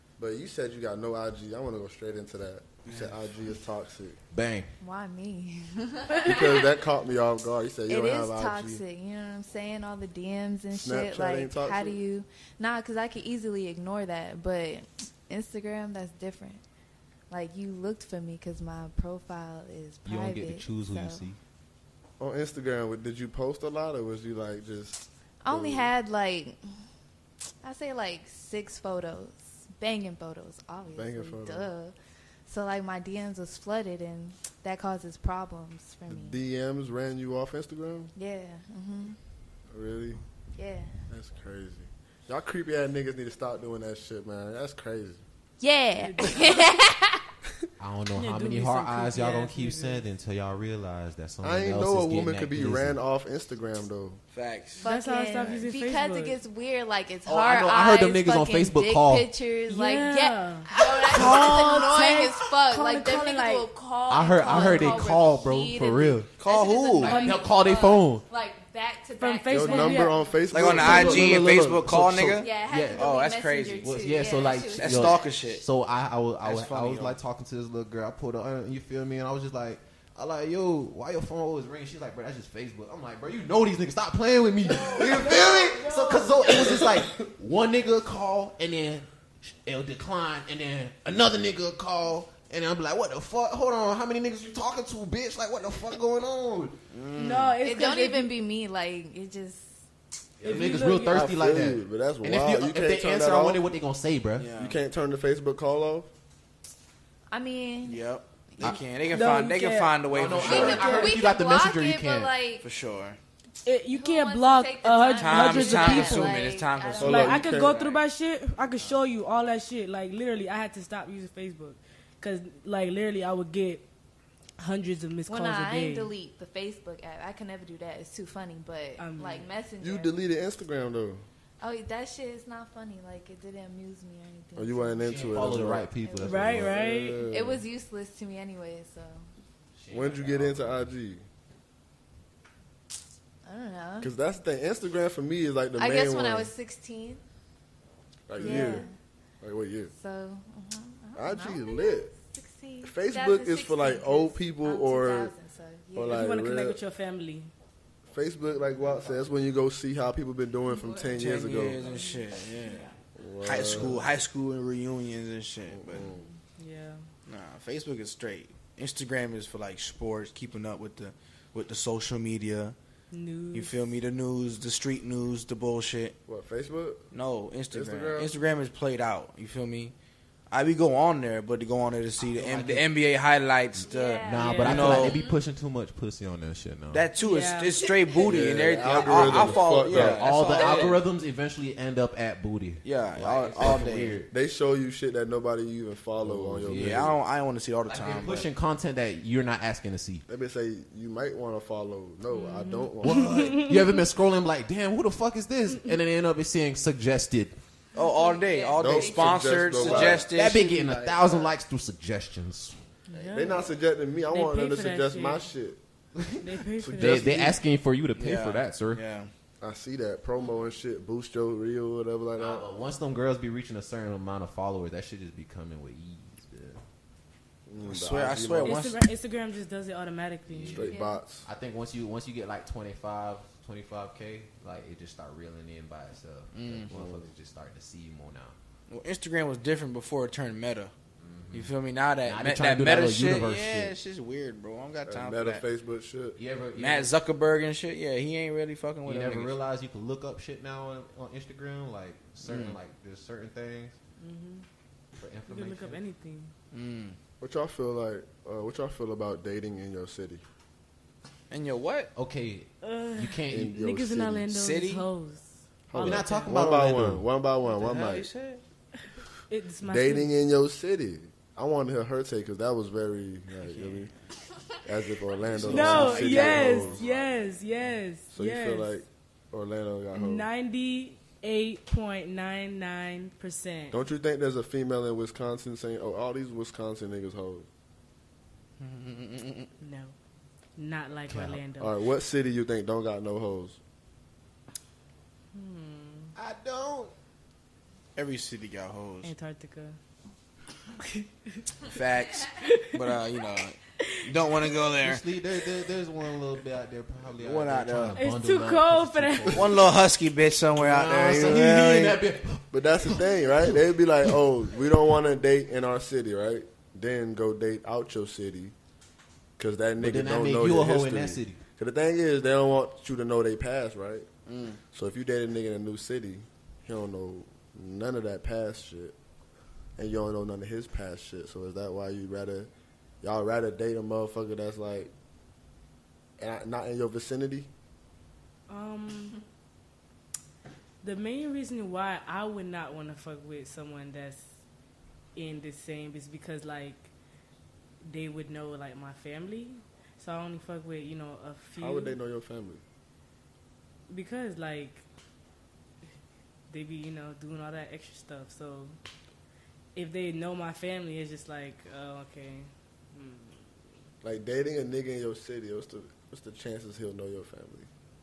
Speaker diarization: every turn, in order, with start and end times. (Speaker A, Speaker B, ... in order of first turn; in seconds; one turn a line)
Speaker A: 0.2-4.2
Speaker B: 2.9-3.1
Speaker C: 4.3-4.7
Speaker D: 4.8-6.6
Speaker A: 6.2-8.8
Speaker D: 7.9-16.6
Speaker A: 10.7-12.0
Speaker D: 17.3-21.2
Speaker C: 20.1-21.4
Speaker A: 22.2-25.9
Speaker D: 25.4-26.6
Speaker D: 27.6-31.9
Speaker A: 30.9-31.7
Speaker D: 32.5-36.4
Speaker A: 36.1-38.1
Speaker D: 38.1-39.2
Speaker A: 39.7-40.2
Speaker D: 40.5-40.9
Speaker A: 41.1-45.2
Speaker D: 45.6-47.2
Speaker E: 46.0-46.4
Speaker C: 47.8-53.0
Speaker E: 48.1-50.0
Speaker A: 51.4-54.2
Speaker B: 54.3-54.9
Speaker D: 54.8-70.2
Speaker E: 54.8-56.4
Speaker C: 57.2-59.3
Speaker E: 59.7-63.6
Speaker C: 61.1-61.7
Speaker C: 64.1-66.3
Speaker E: 64.5-64.9
Speaker B: 66.4-67.2
Speaker C: 67.0-68.2
Speaker E: 67.0-67.4
Speaker E: 69.2-70.2
Speaker A: 69.5-71.5
Speaker B: 70.5-74.2
Speaker C: 70.6-73.0
Speaker D: 72.4-75.4
Speaker C: 73.7-96.8
Speaker B: 74.8-75.6
Speaker B: 76.4-77.2
Speaker E: 84.6-86.9
Speaker A: 84.8-85.2
Speaker A: 86.5-87.2
Speaker B: 96.9-97.5
Speaker E: 97.2-98.3
Speaker D: 97.6-99.7
Speaker C: 100.4-104.5
Speaker E: 100.4-101.3
Speaker A: 101.0-103.6
Speaker B: 104.4-104.8
Speaker A: 104.6-106.1
Speaker D: 107.3-108.0
Speaker B: 107.8-111.1
Speaker E: 109.1-110.0
Speaker C: 110.0-112.3
Speaker D: 110.4-112.7
Speaker B: 112.6-113.2
Speaker E: 113.6-116.4
Speaker D: 113.9-117.3
Speaker B: 115.2-118.0
Speaker A: 117.0-117.9
Speaker E: 117.0-123.8
Speaker E: 124.6-126.1
Speaker D: 125.3-130.2
Speaker E: 129.0-129.5
Speaker A: 129.8-131.2
Speaker D: 131.6-136.6
Speaker A: 134.6-135.9
Speaker C: 135.0-137.1
Speaker E: 136.2-137.2
Speaker A: 136.6-137.6
Speaker D: 137.3-139.2
Speaker C: 139.7-140.9
Speaker A: 139.9-141.2
Speaker D: 143.4-144.1
Speaker A: 144.0-146.5
Speaker D: 145.8-147.2
Speaker A: 148.3-148.8
Speaker D: 148.4-148.9
Speaker E: 148.4-148.8
Speaker A: 149.4-149.9
Speaker D: 149.9-156.3
Speaker A: 151.2-152.1
Speaker A: 152.8-155.3
Speaker A: 155.9-156.8
Speaker E: 156.1-157.5
Speaker A: 158.1-161.8
Speaker D: 160.7-161.1
Speaker B: 161.1-162.9
Speaker E: 161.8-162.9
Speaker A: 163.2-164.1
Speaker B: 163.4-166.0
Speaker A: 165.7-166.2
Speaker E: 166.6-167.0
Speaker B: 167.3-172.7
Speaker E: 173.1-173.8
Speaker B: 173.5-176.2
Speaker A: 176.3-177.1
Speaker B: 177.1-179.9
Speaker A: 177.7-178.3
Speaker B: 180.5-185.2
Speaker C: 182.2-182.9
Speaker D: 183.8-185.4
Speaker C: 184.2-187.1
Speaker E: 184.3-185.1
Speaker B: 186.9-191.1
Speaker E: 187.2-187.8
Speaker A: 188.2-190.3
Speaker C: 189.1-194.3
Speaker B: 192.8-194.2
Speaker A: 193.6-197.1
Speaker C: 196.2-197.2
Speaker B: 196.7-198.5
Speaker C: 197.8-200.2
Speaker A: 200.3-203.5
Speaker E: 202.3-204.0
Speaker C: 203.0-207.6
Speaker D: 207.9-210.0
Speaker B: 207.9-211.4
Speaker A: 208.8-211.5
Speaker C: 209.8-212.8
Speaker E: 213.1-213.7
Speaker A: 213.2-215.8
Speaker E: 214.3-215.5
Speaker E: 216.4-217.6
Speaker A: 216.8-217.4
Speaker C: 217.0-219.0
Speaker B: 218.1-219.3
Speaker A: 219.6-222.7
Speaker C: 222.3-226.8
Speaker A: 227.7-228.8
Speaker B: 227.8-229.0
Speaker E: 228.6-230.9
Speaker C: 230.5-238.6
Speaker A: 230.7-231.5
Speaker D: 230.8-231.2
Speaker B: 236.5-236.9
Speaker A: 236.9-237.3
Speaker B: 238.9-240.9
Speaker C: 241.2-243.9
Speaker B: 241.5-245.6
Speaker A: 245.1-246.4
Speaker C: 246.4-247.1
Speaker B: 246.7-249.6
Speaker C: 249.0-253.9
Speaker B: 252.4-252.8
Speaker E: 254.2-254.6
Speaker C: 255.2-256.0
Speaker E: 255.5-256.5
Speaker B: 256.7-257.1
Speaker A: 257.4-260.4
Speaker B: 261.5-262.1
Speaker C: 262.1-263.8
Speaker E: 262.8-266.6
Speaker A: 263.5-264.5
Speaker B: 264.5-265.1
Speaker A: 265.9-268.3
Speaker C: 265.9-267.2
Speaker B: 267.7-268.6
Speaker E: 269.5-270.3
Speaker A: 269.8-274.1
Speaker B: 273.6-274.1
Speaker A: 274.8-277.1
Speaker C: 275.5-277.3
Speaker E: 275.6-278.9
Speaker A: 278.3-280.5
Speaker E: 280.1-284.0
Speaker A: 283.9-287.7
Speaker B: 288.8-289.7
Speaker E: 289.8-290.1
Speaker E: 290.8-291.9
Speaker C: 291.3-291.6
Speaker A: 291.8-293.8
Speaker E: 295.5-296.3
Speaker C: 296.3-297.1
Speaker B: 298.1-299.3
Speaker E: 299.2-300.0
Speaker E: 301.0-301.6
Speaker B: 301.8-305.2
Speaker E: 302.5-303.1
Speaker C: 305.0-309.9
Speaker B: 307.4-308.2
Speaker E: 308.2-309.7
Speaker B: 309.5-312.2
Speaker C: 310.8-313.8
Speaker A: 312.7-318.7
Speaker A: 319.6-324.3
Speaker C: 320.0-321.6
Speaker B: 324.5-324.8
Speaker A: 324.9-329.1
Speaker A: 330.0-332.7
Speaker A: 333.2-335.1
Speaker A: 336.4-337.7
Speaker E: 338.7-339.4
Speaker E: 341.0-344.5
Speaker E: 345.4-347.1
Speaker E: 348.0-352.2
Speaker A: 351.8-352.8
Speaker E: 354.1-355.0
Speaker E: 356.7-358.9
Speaker E: 359.9-363.7
Speaker A: 364.2-367.9